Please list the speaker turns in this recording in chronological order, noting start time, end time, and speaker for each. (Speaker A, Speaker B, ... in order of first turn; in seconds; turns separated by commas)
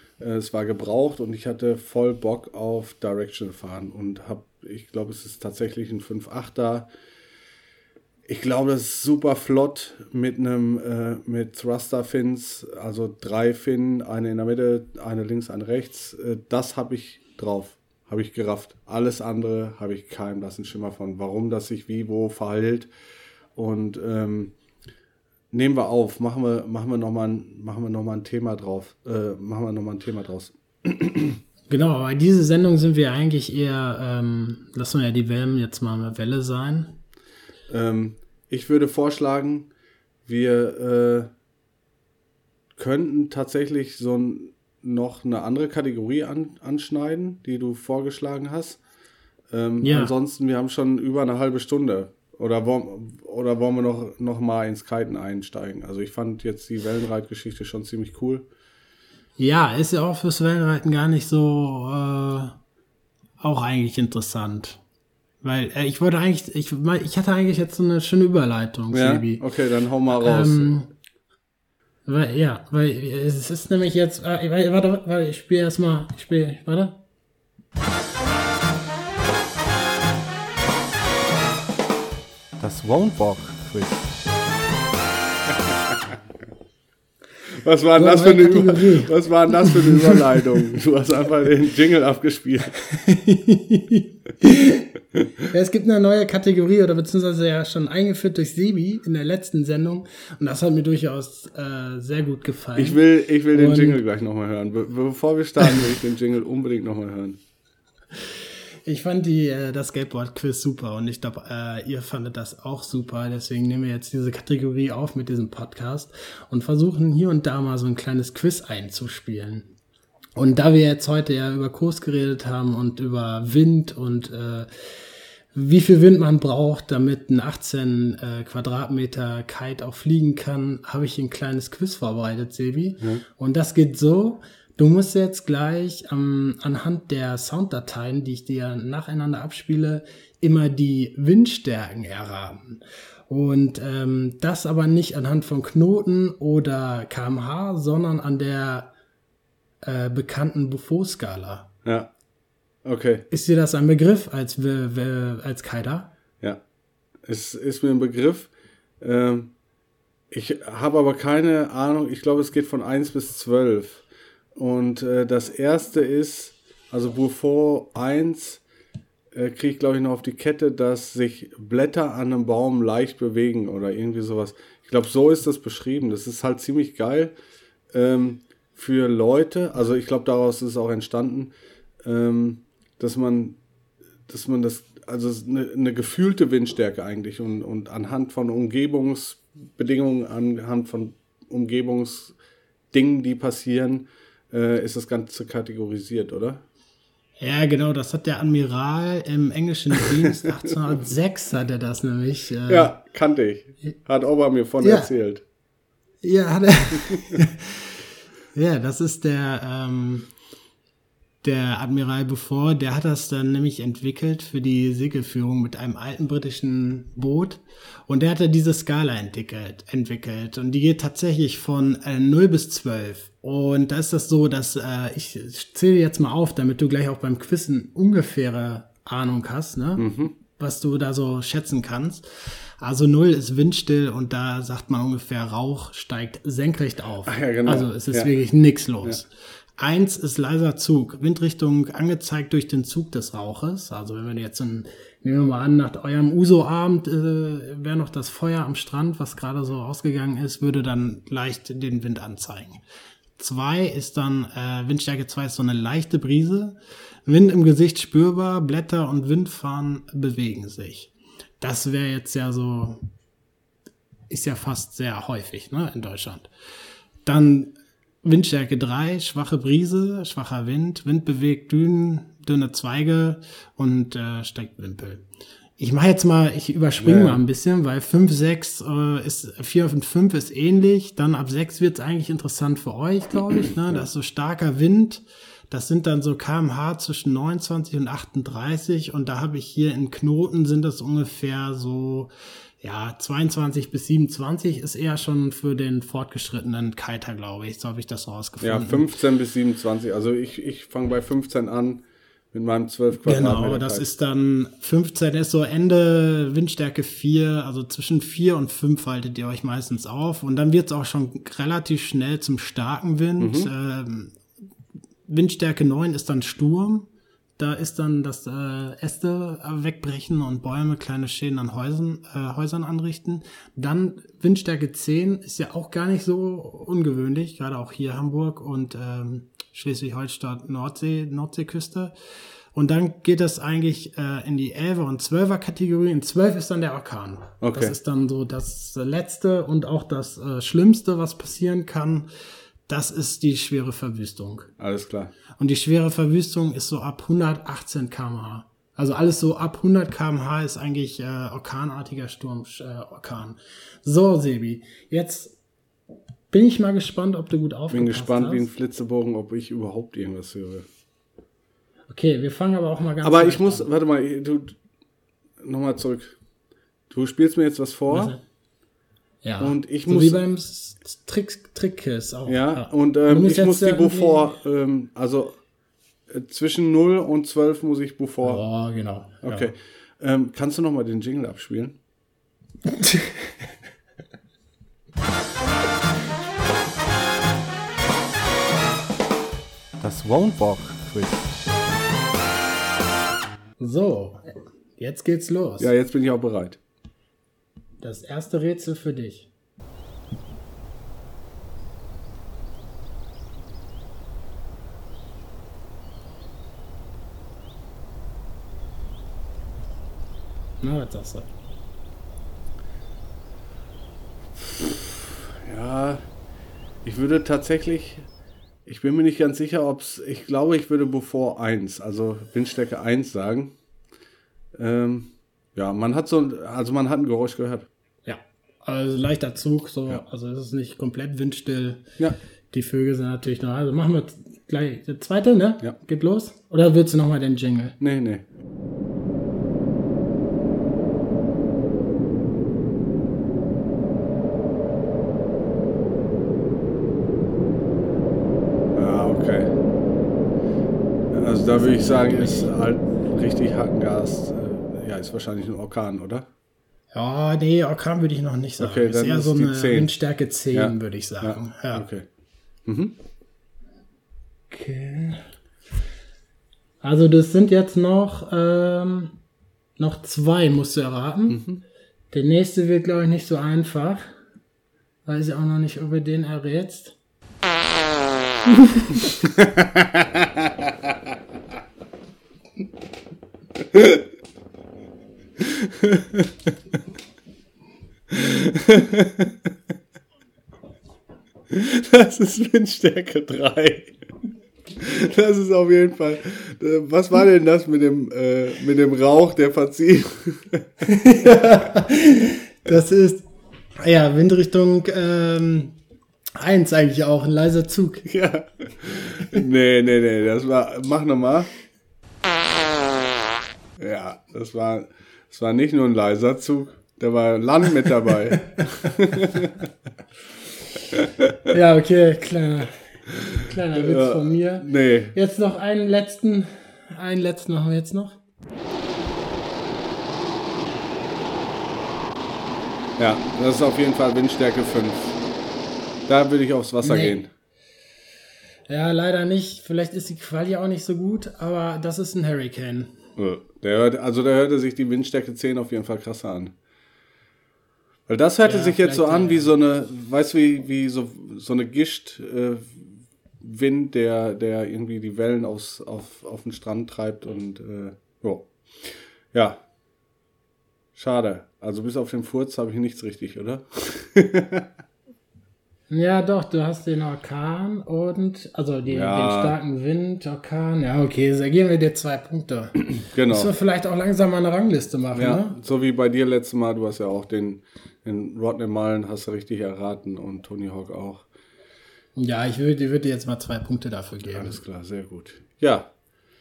Speaker A: 0.2-6.9, Speaker A: 8.3-22.9, Speaker A: 23.6-24.5, Speaker A: 25.5-31.4, Speaker B: 31.7-37.0, Speaker A: 37.7-39.7, Speaker A: 40.3-41.3, Speaker A: 42.8-48.8, Speaker A: 49.5-58.5, Speaker B: 49.8-50.1, Speaker B: 59.4-62.6, Speaker B: 63.4-64.8, Speaker B: 65.4-69.5, Speaker A: 68.9-70.7, Speaker B: 70.1-70.9, Speaker B: 72.1-77.0, Speaker A: 82.6-84.2, Speaker A: 85.5-86.2, Speaker A: 87.5-92.8, Speaker B: 88.0-90.2, Speaker B: 92.9-95.0, Speaker B: 95.5-104.0, Speaker A: 102.8-107.4, Speaker B: 108.2-119.7, Speaker B: 120.4-148.9, Speaker B: 149.8-151.7, Speaker A: 151.8-152.1, Speaker A: 152.8-153.3, Speaker B: 153.3-156.1, Speaker A: 157.3-159.5, Speaker A: 160.3-168.6, Speaker A: 169.3-177.3, Speaker A: 177.9-183.6, Speaker A: 184.3-192.3, Speaker A: 192.9-196.6, Speaker B: 197.4-202.9, Speaker A: 202.7-205.4, Speaker B: 204.8-205.1, Speaker B: 206.2-208.0, Speaker A: 207.1-207.4, Speaker B: 208.5-210.3, Speaker B: 211.4-252.8, Speaker A: 230.0-230.3, Speaker A: 237.3-238.3, Speaker B: 253.4-263.0, Speaker B: 264.3-266.5, Speaker B: 267.3-275.3, Speaker B: 275.8-299.1, Speaker A: 277.0-277.4, Speaker A: 298.6-302.0, Speaker A: 302.5-304.1, Speaker B: 303.2-314.4, Speaker A: 313.4-313.7, Speaker B: 315.3-332.1, Speaker B: 332.7-342.3, Speaker A: 337.6-338.0, Speaker B: 342.9-344.7, Speaker A: 344.8-345.3, Speaker B: 345.6-355.6, Speaker B: 356.5-358.7, Speaker A: 357.9-360.9, Speaker B: 362.1-363.9, Speaker A: 363.2-364.8, Speaker A: 365.6-366.4, Speaker A: 367.1-368.3, Speaker B: 368.1-368.4, Speaker B: 369.4-374.5, Speaker A: 369.6-370.4, Speaker A: 372.5-375.6, Speaker A: 376.3-378.6, Speaker B: 378.4-379.7, Speaker A: 379.4-382.0, Speaker B: 382.9-383.5, Speaker A: 390.0-391.6, Speaker B: 393.8-395.9, Speaker A: 395.8-396.8, Speaker B: 398.0-399.5, Speaker B: 410.8-411.5, Speaker A: 414.6-416.2, Speaker A: 417.0-418.3, Speaker A: 418.9-423.7, Speaker A: 424.7-427.9, Speaker B: 428.2-432.1, Speaker B: 432.7-438.0, Speaker A: 438.0-438.5, Speaker A: 448.9-449.7, Speaker A: 451.3-456.5, Speaker B: 451.8-452.7, Speaker B: 457.1-462.1, Speaker A: 458.8-460.1, Speaker A: 460.7-462.3, Speaker A: 462.9-463.2, Speaker B: 464.7-465.4, Speaker B: 467.0-469.4, Speaker B: 470.0-471.6, Speaker A: 471.5-471.8, Speaker B: 472.3-474.3, Speaker B: 475.3-477.2, Speaker B: 478.8-479.3, Speaker A: 479.4-481.1, Speaker A: 483.8-484.2, Speaker A: 485.6-486.7, Speaker A: 488.3-489.7, Speaker A: 491.7-494.2, Speaker A: 495.0-501.1, Speaker B: 501.0-503.5, Speaker B: 504.0-506.0, Speaker B: 506.6-508.3, Speaker A: 508.2-511.7, Speaker A: 514.0-519.9, Speaker A: 521.1-521.8, Speaker B: 521.7-528.4, Speaker A: 523.4-525.4, Speaker A: 533.2-535.4, Speaker A: 536.3-537.5, Speaker B: 537.0-537.4, Speaker B: 538.9-543.2, Speaker A: 543.4-546.8, Speaker A: 548.3-553.1, Speaker B: 548.6-549.7, Speaker A: 553.6-559.8, Speaker A: 561.1-564.9, Speaker B: 566.1-575.8, Speaker A: 569.1-569.8, Speaker A: 573.2-573.7, Speaker A: 575.3-581.5, Speaker B: 582.4-584.8, Speaker A: 584.5-586.1